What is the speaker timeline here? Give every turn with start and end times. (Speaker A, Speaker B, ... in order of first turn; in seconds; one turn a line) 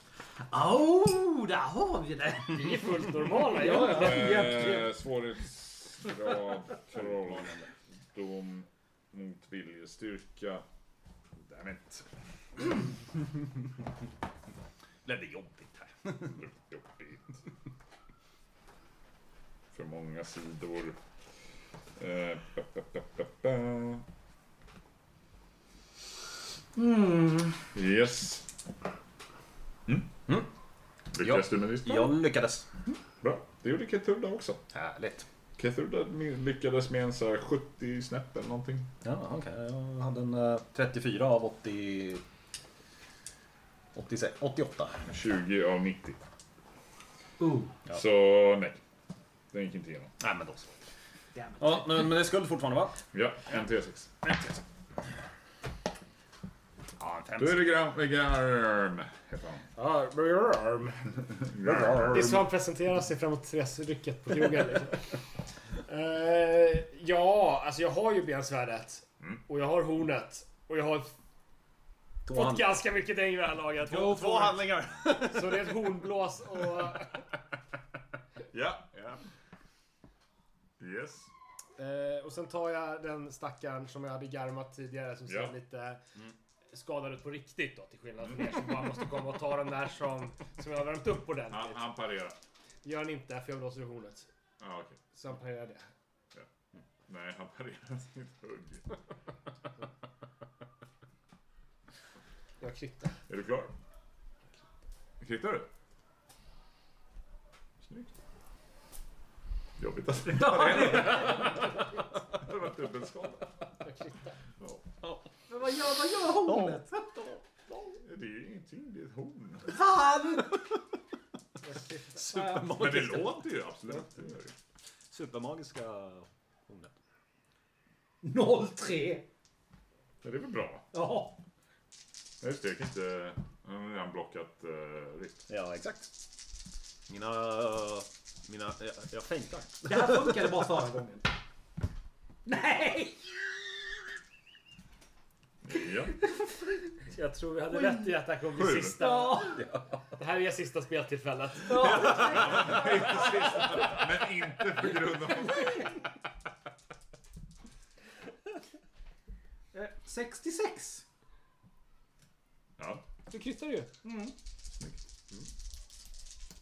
Speaker A: 0.5-4.9
Speaker B: 2.5-4.5
Speaker C: 3.8-10.6
Speaker D: 7.2-7.6
Speaker C: 11.3-12.1
Speaker D: 15.1-16.4
Speaker C: 16.2-17.4
Speaker C: 19.7-21.0
Speaker C: 22.0-24.0
Speaker A: 26.7-27.6
Speaker C: 27.7-28.5
Speaker C: 31.1-32.2
Speaker D: 31.2-32.7
Speaker C: 33.2-34.6
Speaker D: 34.7-35.3
Speaker C: 35.6-38.9
Speaker D: 39.0-42.2
Speaker D: 43.9-45.0
Speaker C: 45.0-46.2
Speaker A: 47.4-47.7
Speaker C: 47.9-48.8
Speaker C: 49.5-50.1
Speaker D: 50.2-50.7
Speaker A: 51.3-51.9
Speaker D: 51.6-53.0
Speaker C: 53.1-54.1
Speaker D: 54.2-54.6
Speaker D: 57.0-57.7
Speaker C: 57.4-59.7
Speaker B: 59.7-61.2
Speaker C: 61.5-62.4
Speaker B: 61.9-65.2
Speaker B: 65.8-71.1
Speaker D: 72.2-72.7
Speaker B: 72.3-77.2
Speaker D: 73.8-75.8
Speaker C: 78.5-79.1
Speaker C: 80.8-81.3
Speaker B: 81.8-86.0
Speaker C: 85.2-85.5
Speaker B: 86.7-91.9
Speaker C: 91.5-92.4
Speaker B: 92.8-94.3
Speaker C: 94.6-95.0
Speaker B: 95.1-95.9
Speaker C: 97.1-99.0
Speaker B: 102.6-103.2
Speaker C: 103.3-103.7
Speaker C: 105.2-105.7
Speaker C: 107.8-108.1
Speaker C: 109.8-113.5
Speaker A: 110.2-111.8
Speaker B: 113.8-114.3
Speaker C: 114.6-114.8
Speaker D: 115.0-115.3
Speaker A: 115.5-117.1
Speaker D: 116.4-117.9
Speaker C: 118.0-119.8
Speaker A: 119.7-120.6
Speaker D: 122.1-123.5
Speaker A: 122.1-122.8
Speaker C: 122.7-124.5
Speaker D: 125.1-126.9
Speaker A: 128.2-129.2
Speaker C: 130.2-130.9
Speaker A: 130.9-131.3
Speaker C: 132.4-135.4
Speaker D: 135.5-136.1
Speaker D: 137.1-140.7
Speaker A: 139.8-141.3
Speaker A: 142.4-143.4
Speaker C: 145.6-146.2
Speaker B: 147.1-152.2
Speaker C: 148.5-149.0
Speaker A: 148.9-149.7
Speaker A: 151.7-153.5
Speaker C: 152.0-155.9
Speaker D: 152.3-152.9
Speaker A: 159.7-161.0
Speaker C: 162.8-163.0
Speaker B: 163.3-163.9
Speaker A: 164.0-164.3